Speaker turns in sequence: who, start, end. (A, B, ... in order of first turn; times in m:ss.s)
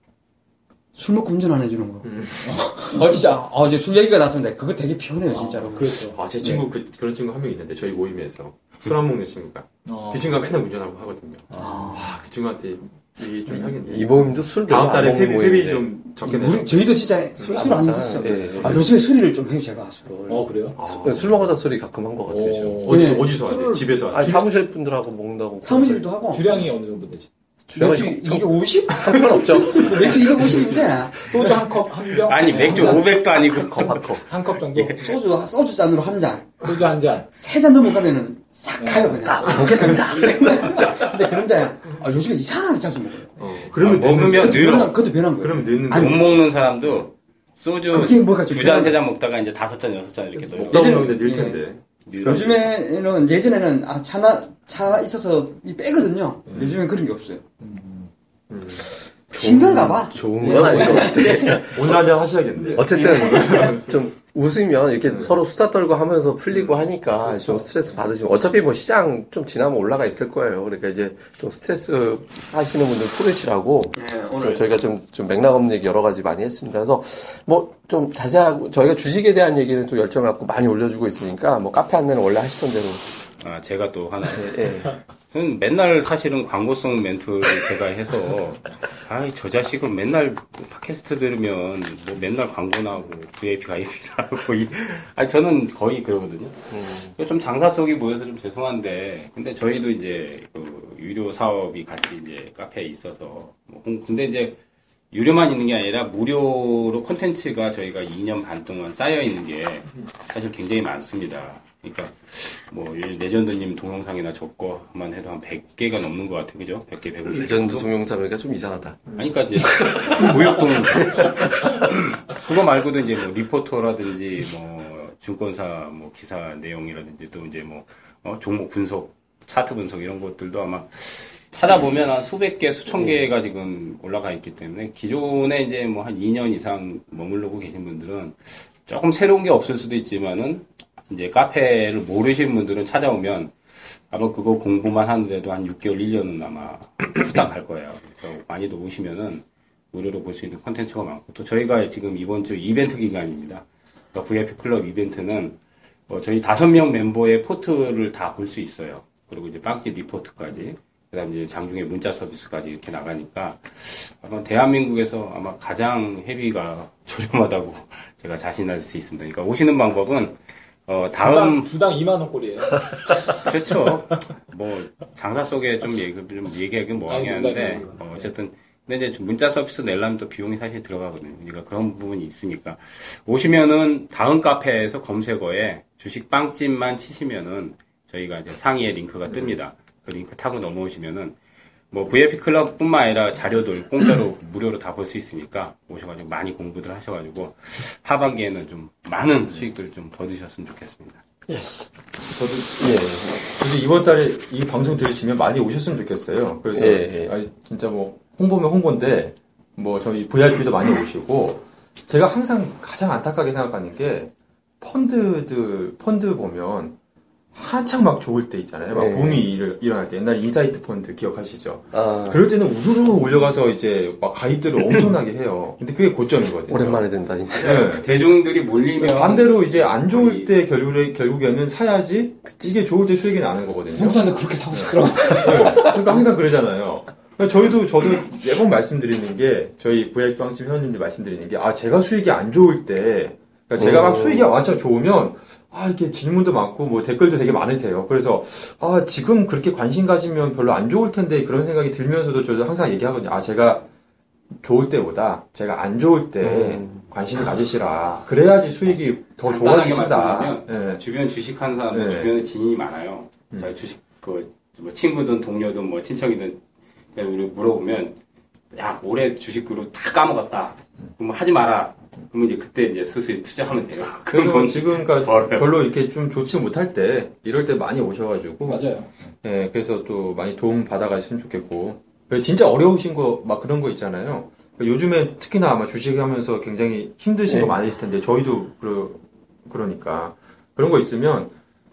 0:01.0-0:02.1 A
0:02.0-0:02.6 B
0:02.5-0:02.8 C
0:02.9-0:06.6 A
0:05.3-0:06.2 C
0:06.1-0:17.6 B
0:09.8-0:10.4 C
0:11.5-0:12.1 C
0:11.5-0:12.2 A
0:13.5-0:15.8 D
0:16.2-0:20.5 A
0:17.4-0:18.9 D
0:20.3-0:20.8 C
0:20.8-0:21.4 B
0:20.9-0:22.9 D
0:22.3-0:24.4 C
0:22.8-0:24.4 B
0:22.9-0:23.3 A
0:24.1-0:26.0 D
0:25.6-0:26.5 A
0:26.3-0:27.3 C
0:27.7-0:30.9 D
0:27.8-0:31.3 A
0:31.2-0:33.1 C
0:32.2-0:34.2 E
0:33.0-0:34.2 D
0:34.2-0:35.2 C
0:35.0-0:36.6 A
0:36.6-0:37.3 C
0:37.3-0:43.4 A
0:38.8-0:39.2 C
0:39.2-0:40.9 D
0:39.5-0:39.8 B
0:43.4-0:46.4 B
0:43.8-0:44.9 E
0:44.4-0:46.3 A
0:45.9-0:51.1 E
0:47.9-0:49.0 A
0:50.4-0:52.6 B
0:50.7-0:51.6 A
0:52.1-0:52.6 E
0:52.2-0:57.4 A
0:56.5-0:56.8 B
0:57.6-0:58.1 C
0:58.5-0:58.9 B
0:59.3-1:02.0 D
0:59.3-1:01.7 A
1:00.5-1:01.0 B
1:01.6-1:04.0 B
1:02.6-1:03.8 A
1:02.7-1:23.0 D
1:05.1-1:05.4 B
1:06.5-1:06.8 B
1:07.2-1:07.7 C
1:14.0-1:14.8 A
1:23.4-1:44.6 E
1:24.3-1:24.9 D
1:36.7-1:37.1 D
1:45.1-1:57.9 E
1:57.3-1:59.1 D
1:59.2-2:23.6 E
1:59.6-2:01.1 D
2:24.1-2:35.6 E
2:36.1-2:51.7 E
2:51.2-2:53.3 C
2:53.3-3:11.4 E
2:57.1-2:58.3 C
3:09.3-3:09.6 B
3:11.9-3:21.2 E
3:21.5-3:21.9 D
3:22.3-3:37.0 B
3:22.8-3:23.3 D
3:26.8-3:27.4 D
3:37.5-3:47.1 B
3:38.9-3:39.5 D
3:41.9-3:42.4 D
3:46.7-3:48.0 D
3:47.5-3:50.5 E
3:47.6-3:48.1 B
3:49.0-4:13.9 B
3:53.9-3:56.2 C
4:03.8-4:04.5 D
4:14.6-4:21.0 B
4:16.4-4:17.1 D
4:19.4-4:26.6 E
4:21.9-4:22.3 B
4:27.2-4:28.2 E
4:28.7-4:35.7 E
4:34.3-4:38.9 B
4:38.6-4:39.1 C
4:39.4-4:51.5 B
4:47.5-4:47.8 D